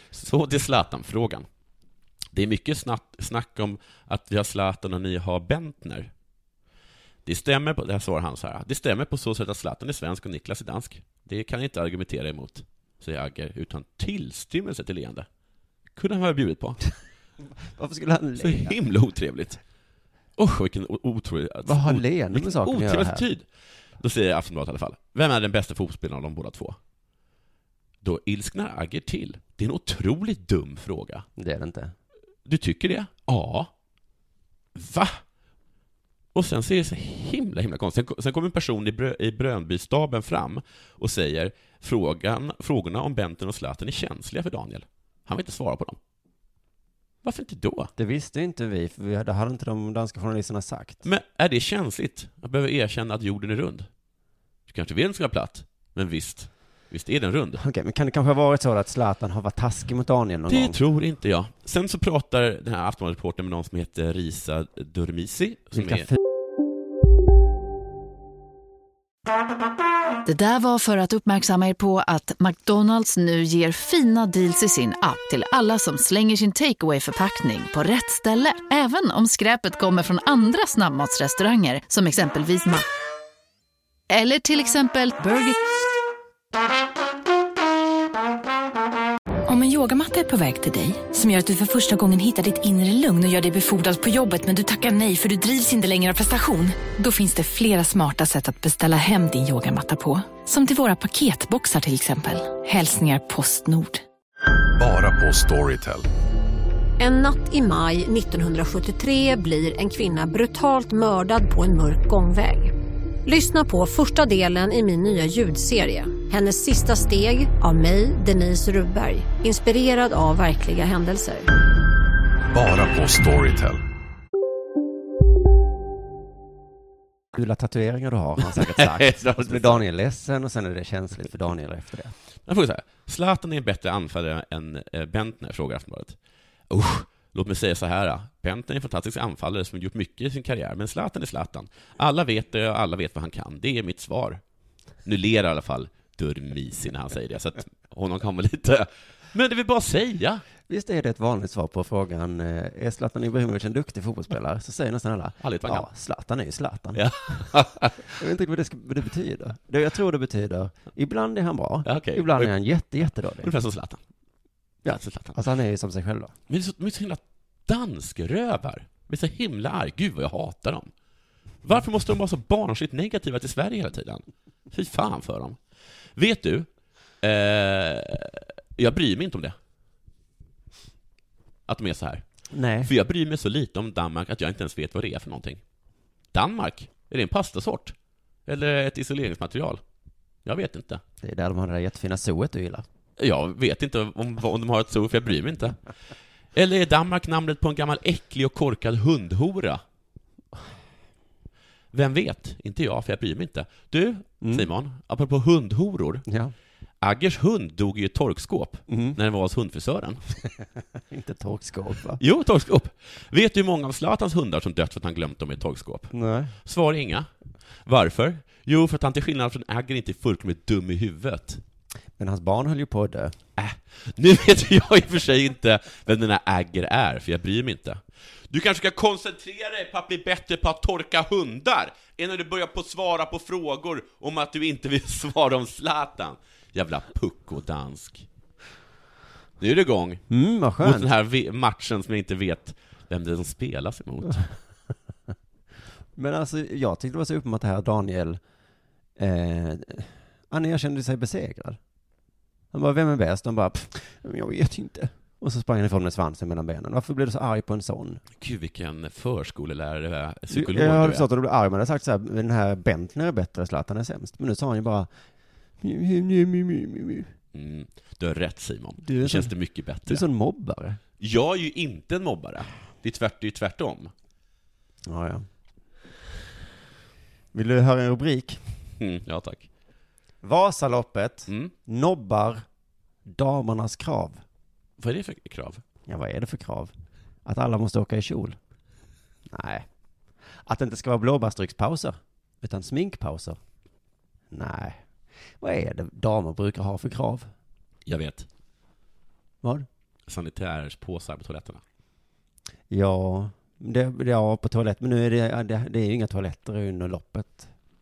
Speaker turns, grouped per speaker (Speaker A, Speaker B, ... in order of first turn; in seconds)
Speaker A: 0.1-1.5, 2.3-6.1, 7.2-15.3, 16.0-16.8, 18.4-19.6, 20.4-23.5, 24.0-26.8, 28.0-31.3, 32.5-33.7, 34.8-35.2, 36.3-46.0, 47.2-47.9, 51.0-53.9, 54.7-57.6, 60.5-66.1, 128.5-129.8, 132.5-136.2, 136.7-144.4, 145.1-150.4, 155.4-155.9, 156.9-158.1, 161.9-162.5, 163.4-164.0, 164.9-165.4, 166.5-170.9, 171.6-175.6, 176.2-176.7, 177.2-179.6, 181.7-182.2, 182.8-185.6, 186.3-187.9, 188.5-189.8, 190.4-191.0, 193.2-195.8, 196.6-199.8, 201.9-206.2, 207.0-210.2, 212.2-216.1, 216.7-217.3, 217.9-221.6, 223.6-238.3, 239.6-240.2, 240.8-244.5, 258.4-261.2, 267.5-270.2, 271.2-274.1, 279.0-279.7, 285.0-285.8, 298.1-298.5, 300.3-301.8
Speaker B: 17.7-18.8, 21.6-23.3, 31.4-31.9, 48.0-51.0, 57.6-60.8, 65.8-66.2, 127.3-132.1, 150.7-157.1, 158.1-163.5, 164.8-166.3, 182.5-182.9, 191.2-192.9, 204.4-204.7, 206.3-206.5, 208.9-209.2, 211.1-212.2, 216.1-216.5, 222.2-223.4, 240.3-241.1, 246.2-248.4, 249.2-251.8, 252.7-258.2, 260.5-265.1, 265.8-267.3, 269.0-269.5, 270.1-271.0, 275.1-275.4, 277.5-278.6, 280.4-282.6, 283.3-284.4, 286.1-286.9, 287.4-288.6, 289.5-289.9, 290.6-293.6, 294.5-295.0, 295.6-297.5, 302.9-307.7
Speaker C: 70.2-82.8, 84.1-85.6
Speaker D: 89.5-104.0
Speaker E: 104.8-106.1, 122.5-123.8
Speaker F: 107.0-112.7, 113.2-121.5